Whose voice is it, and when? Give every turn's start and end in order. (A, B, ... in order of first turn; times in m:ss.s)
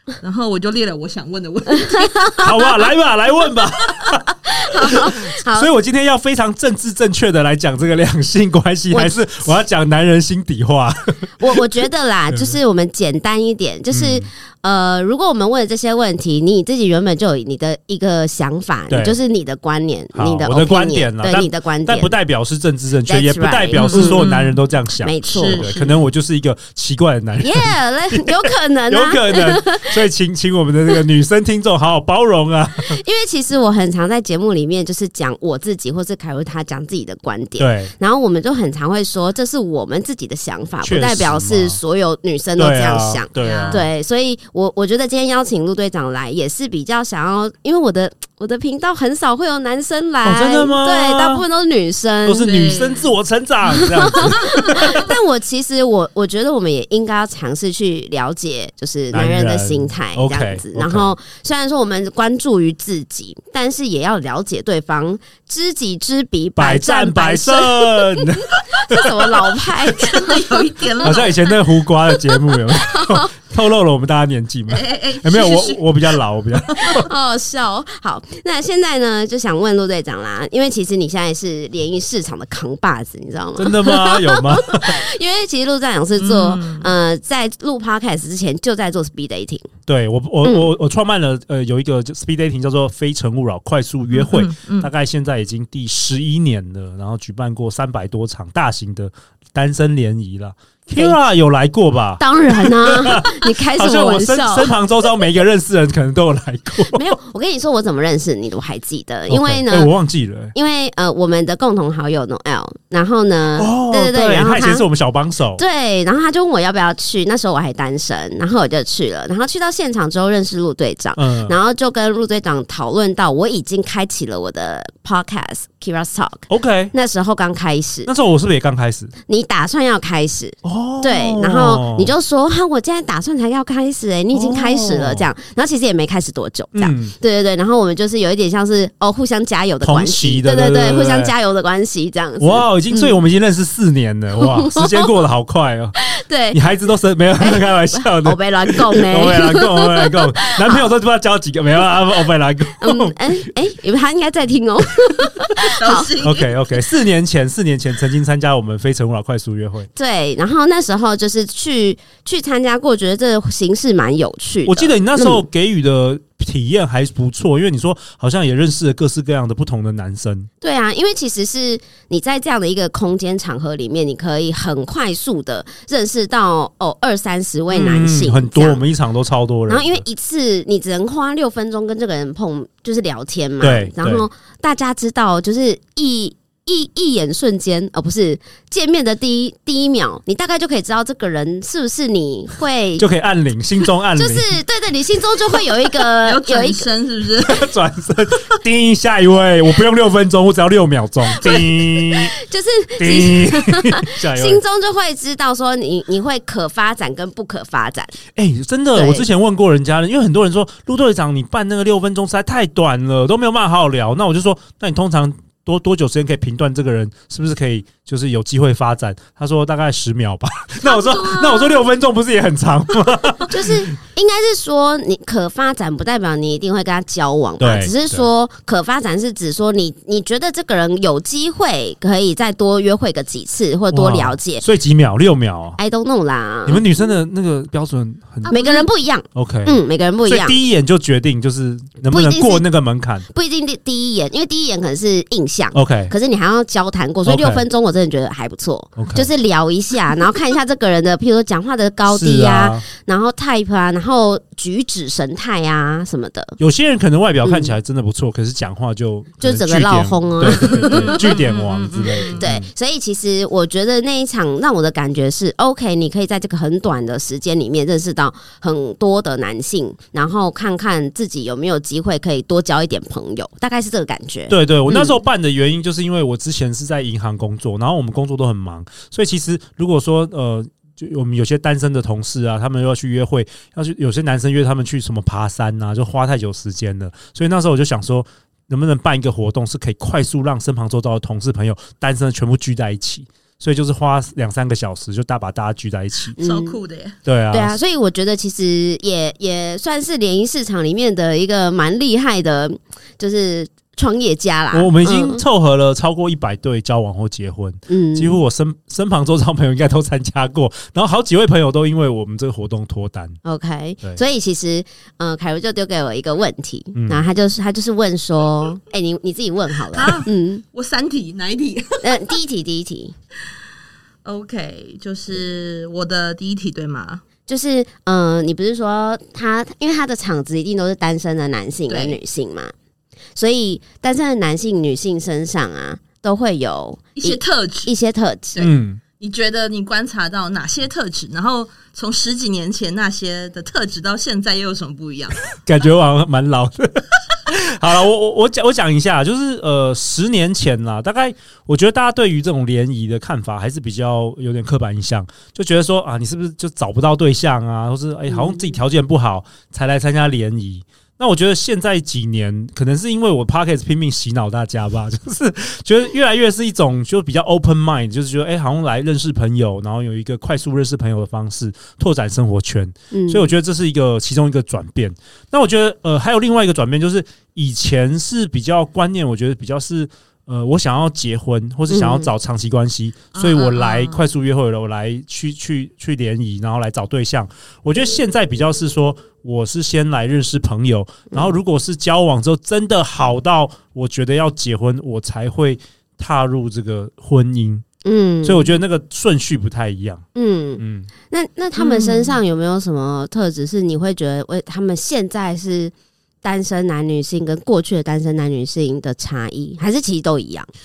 0:00.2-0:02.7 A
0:01.8-0:02.5 B
0:02.4-0:11.6 C
0:04.4-0:05.7 B
0:08.9-0:09.3 B
0:11.4-0:22.1 B
0:13.9-0:14.3 C
0:18.9-0:19.2 C
0:20.1-0:33.0 C
0:23.1-0:24.2 B
0:23.8-0:24.6 A
0:25.0-0:25.7 B
0:25.3-0:26.0 A
0:27.4-0:29.9 B
0:32.8-0:52.7 B
0:37.6-0:37.9 C
0:40.8-0:41.8 C
0:42.6-0:43.9 C
0:43.4-0:43.8 A
0:50.2-0:51.4 C
0:52.2-0:55.0 C
0:52.4-0:53.1 A
0:53.7-1:08.3 B
0:59.1-1:01.1 C
1:06.6-1:09.0 C
1:08.8-1:10.6 B
1:10.0-1:11.8 A
1:11.0-1:17.1 C
1:12.8-1:13.3 B
1:14.7-1:16.1 A
1:16.9-1:29.7 B
1:23.6-1:25.0 C
1:26.2-1:26.9 A
1:29.9-1:47.0 C
1:30.4-1:30.7 B
1:34.1-1:34.9 A
1:42.2-1:44.7 B
1:46.9-1:49.9 B
1:49.3-1:50.5 C
1:50.5-1:54.8 B
1:53.6-1:55.6 C
1:55.6-2:08.1 B
2:01.2-2:01.6 C
2:06.5-2:06.9 C
2:08.0-2:09.1 C
2:09.3-2:23.2 B
2:10.6-2:12.1 C
2:14.3-2:15.3 C
2:16.7-2:17.1 C
2:19.8-2:21.3 C
2:22.4-2:26.0 C
2:24.4-2:25.1 B
2:26.0-2:26.6 B
2:26.5-2:33.4 C
2:27.4-2:30.8 B
2:32.8-2:36.1 B
2:35.6-2:36.6 A
2:36.2-2:39.9 C
2:39.9-2:45.4 B
2:44.6-2:50.5 C
2:50.6-2:58.8 B
2:57.7-3:00.0 C
2:59.7-3:13.1 B
3:03.6-3:04.2 C
3:13.0-3:14.6 C
3:14.2-3:16.9 B
3:16.0-3:17.7 A
3:17.4-3:22.3 C
3:21.3-3:28.2 B
3:23.0-3:24.6 C
3:28.4-3:43.7 C
3:29.0-3:29.2 B
3:40.8-3:41.8 A
3:43.5-3:54.6 B
3:47.6-3:48.2 C
3:53.9-3:55.8 C
3:55.8-3:56.8 B
3:56.6-4:03.3 C
3:58.5-3:58.7 A
3:58.5-4:00.6 B
4:02.1-4:02.6 B
4:03.3-4:16.6 B
4:05.7-4:06.1 C
4:07.2-4:07.6 C
4:09.0-4:09.3 C
4:12.1-4:12.8 C
4:16.6-4:22.7 C
4:17.4-4:17.7 B
4:19.4-4:21.4 B
4:20.6-4:22.4 A
4:22.2-4:35.1 B
4:34.5-4:56.4 C
4:56.4-4:57.2 A
4:56.4-4:56.8 B
4:57.2-4:57.8 C
4:57.5-5:05.4 B
5:04.7-5:13.4 C
5:07.9-5:08.4 B
5:13.4-5:20.6 B
5:16.9-5:17.2 C
5:19.9-5:22.3 A
5:22.0-5:23.1 B
5:24.2-5:27.2 A
5:27.5-5:32.7 B
5:31.9-5:32.2 A
5:33.3-5:38.6 B
5:37.2-5:37.9 A
5:38.6-5:39.0 C
5:38.6-5:45.4 A
5:45.6-6:37.8 C
5:58.3-5:58.6 B
6:13.1-6:13.5 B
6:21.9-6:22.3 B
6:23.3-6:24.2 A
6:38.0-6:38.7 B
6:38.4-6:40.2 C
6:40.3-6:50.7 B
6:40.8-6:41.1 C
6:41.8-6:42.4 A